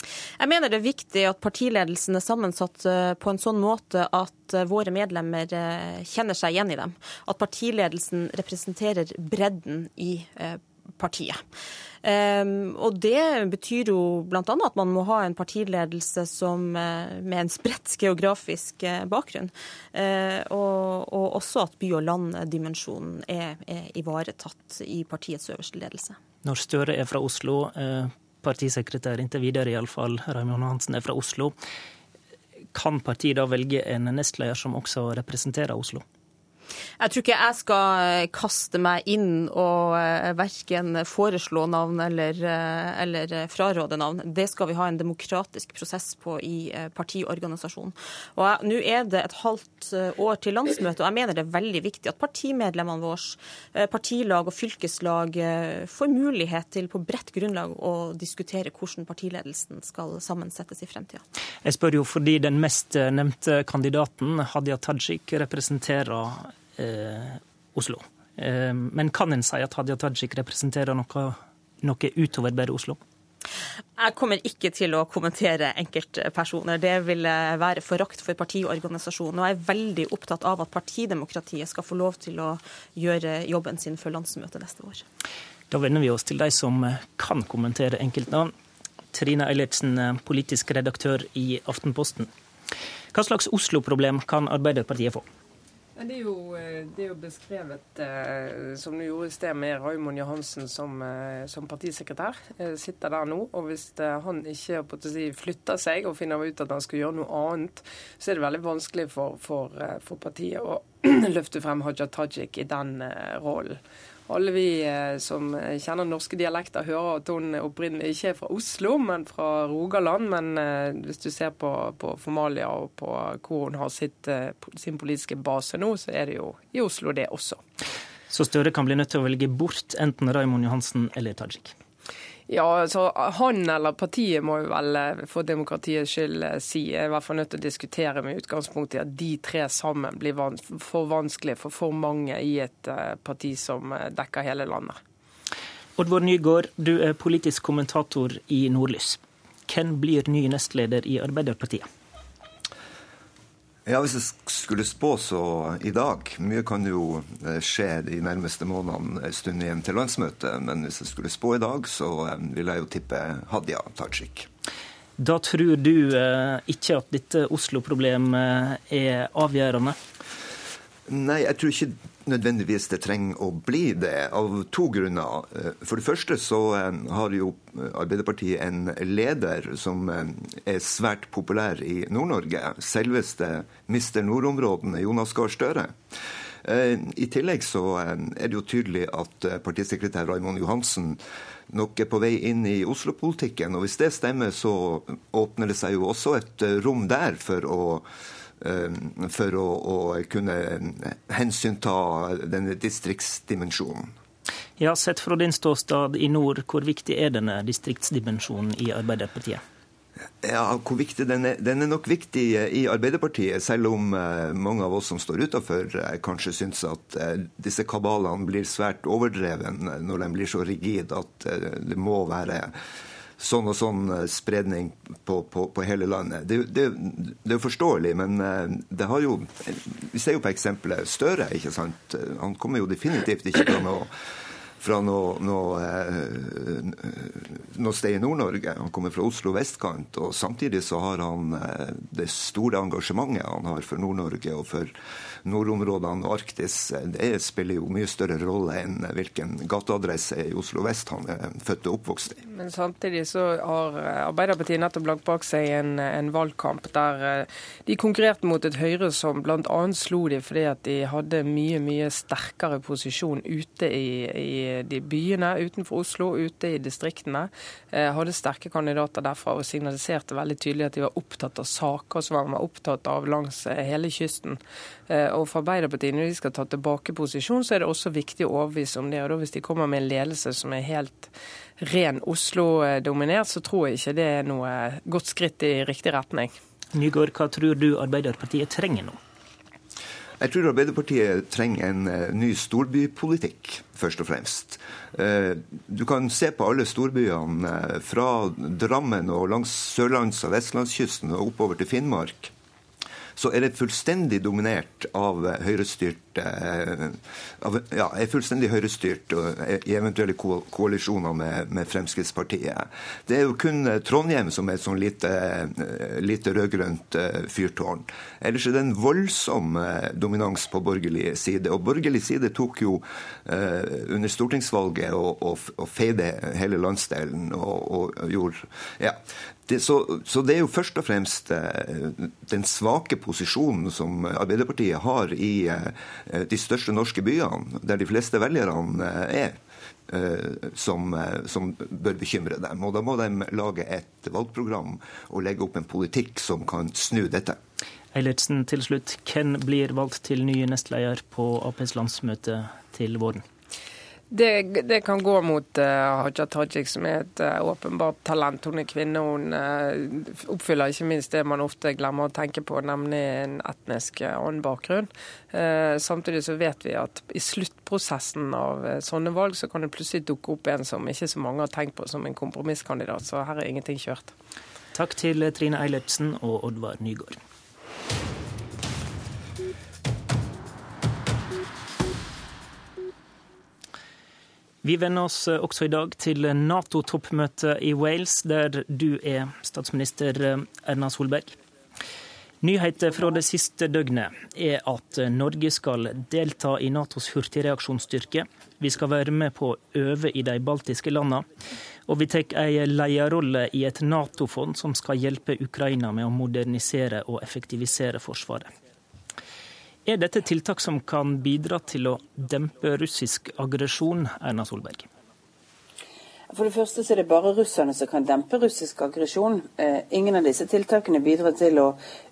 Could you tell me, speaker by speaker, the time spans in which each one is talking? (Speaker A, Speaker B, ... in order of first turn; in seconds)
Speaker A: 0.4-11.4, 12.0-26.2, 37.0-61.2, 74.0-85.0
Speaker B: 26.4-31.6, 32.7-36.0, 61.6-73.0, 85.7-88.5, 89.1-92.3, 93.1-95.3, 128.3-131.7, 146.0-151.9, 165.2-170.0, 204.8-209.6, 286.9-289.2, 348.1-353.4, 374.9-377.4, 384.8-391.6, 392.6-401.5, 402.1-408.7, 410.1-415.1
Speaker C: 96.0-127.6, 132.5-145.0, 252.4-286.6, 354.3-374.3
Speaker D: 153.9-164.5, 171.1-186.0, 186.6-198.1, 198.6-204.1, 210.4-222.7, 223.4-234.1, 234.8-244.9, 245.4-252.4, 290.4-302.5, 303.4-347.6
Speaker E: 416.5-422.0